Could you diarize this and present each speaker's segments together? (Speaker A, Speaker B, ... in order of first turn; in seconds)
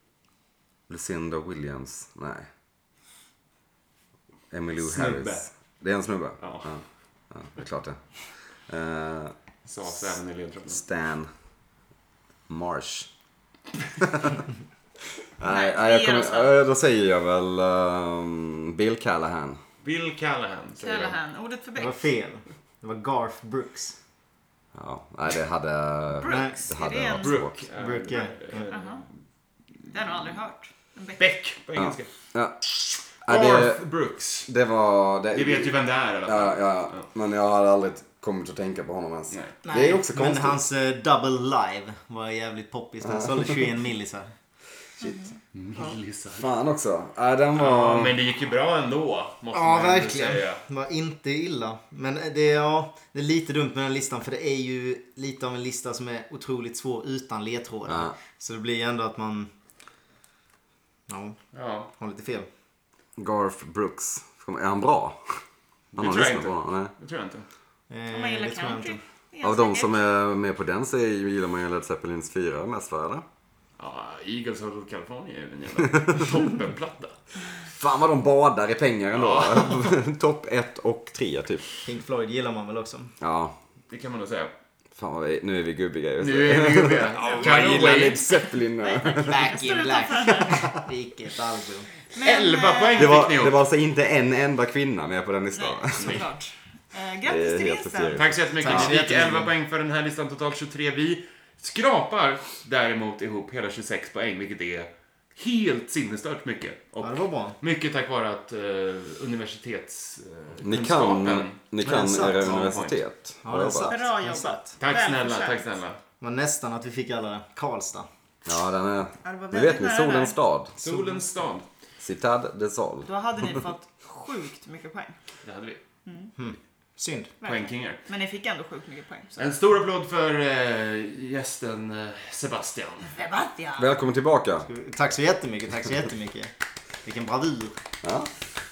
Speaker A: 0.9-2.5, 4.5-9.4, 10.7-11.3, 12.5-13.1, 14.0-14.4, 15.4-19.6, 24.7-27.7, 31.8-32.6, 33.2-33.8, 34.5-40.6, 43.0-43.7, 46.3-48.2, 57.9-58.1, 63.2-65.4, 66.0-66.9, 69.4-73.2, 77.7-81.7, 83.2-83.5, 85.0-89.5, 93.0-96.3, 97.2-99.0, 110.6-114.0, 118.5-120.8, 122.0-123.1, 133.8-134.7, 138.0-138.3
Speaker B: 4.8-5.5, 6.4-6.7, 9.7-10.8, 19.8-21.2, 27.2-29.1, 31.2-32.1, 32.6-34.5, 35.3-37.1, 45.5-46.5, 47.5-50.6, 61.5-61.9, 65.9-67.5, 73.8-77.2, 79.1-79.9, 83.9-84.5, 86.2-88.2, 92.2-93.6, 96.0-96.2, 98.2-113.0, 114.8-116.0, 120.8-121.7, 125.4-125.8, 127.4-128.0, 129.4-133.2
Speaker C: 15.4-16.5, 20.8-22.0, 26.2-27.4, 28.7-29.1, 29.9-31.2, 68.1-70.0, 87.2-90.7, 92.1-93.2, 95.5-98.2, 113.8-115.6, 119.2-120.4, 123.0-125.2, 126.1-126.3, 127.4-129.5, 133.2-133.8
Speaker D: 21.8-24.0, 26.2-26.6, 27.7-28.6, 39.6-44.3, 49.5-59.5, 61.1-61.4, 61.9-62.5, 67.9-69.0, 81.8-83.1, 89.0-91.9, 98.6-99.5, 107.0-107.6, 111.8-112.8, 113.4-114.7, 116.2-118.1, 126.4-127.3, 134.7-136.5, 137.0-137.8